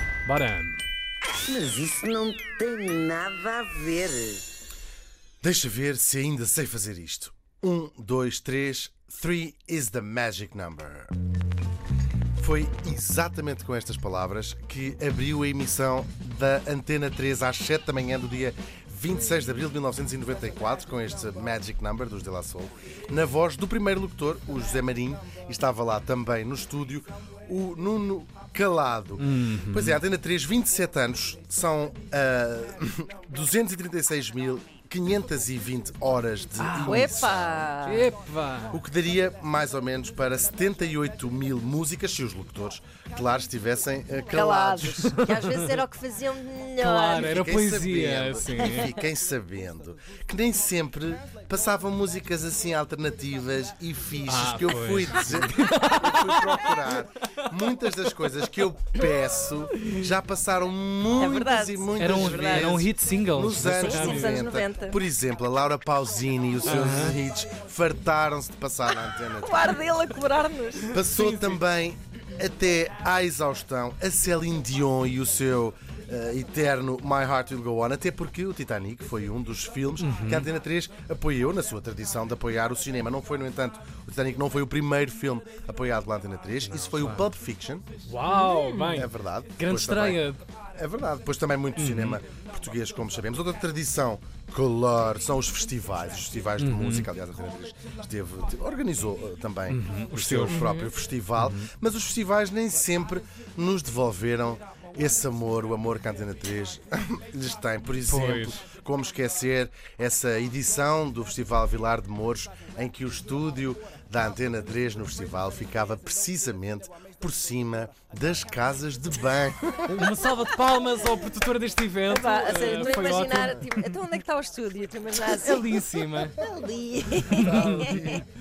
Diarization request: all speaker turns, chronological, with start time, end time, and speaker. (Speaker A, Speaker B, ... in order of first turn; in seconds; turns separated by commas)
Speaker A: 0.2-0.8, Speaker B: 1.5-4.5, Speaker C: 5.4-11.1, Speaker C: 12.4-37.8, Speaker A: 29.2-30.0, Speaker A: 36.6-37.1, Speaker D: 36.9-38.1, Speaker A: 37.8-38.8, Speaker C: 38.7-45.2, Speaker D: 44.3-47.3, Speaker A: 45.0-45.5, Speaker A: 46.8-48.9, Speaker C: 47.0-69.9, Speaker A: 54.3-56.6, Speaker D: 61.2-62.8, Speaker A: 62.0-64.5, Speaker D: 63.8-65.0, Speaker A: 66.7-67.2, Speaker D: 69.4-71.0, Speaker C: 70.9-87.9, Speaker A: 71.0-71.6, Speaker A: 80.0-80.5, Speaker A: 86.6-87.3, Speaker A: 88.1-90.4, Speaker D: 88.3-88.9, Speaker C: 88.9-120.0, Speaker A: 91.8-92.2, Speaker A: 96.6-97.1, Speaker A: 99.7-100.8, Speaker D: 100.5-100.9, Speaker A: 101.4-101.7, Speaker A: 108.1-108.6, Speaker A: 119.9-123.9, Speaker D: 122.1-128.2, Speaker A: 125.2-126.4, Speaker C: 127.4-128.3, Speaker A: 127.4-128.0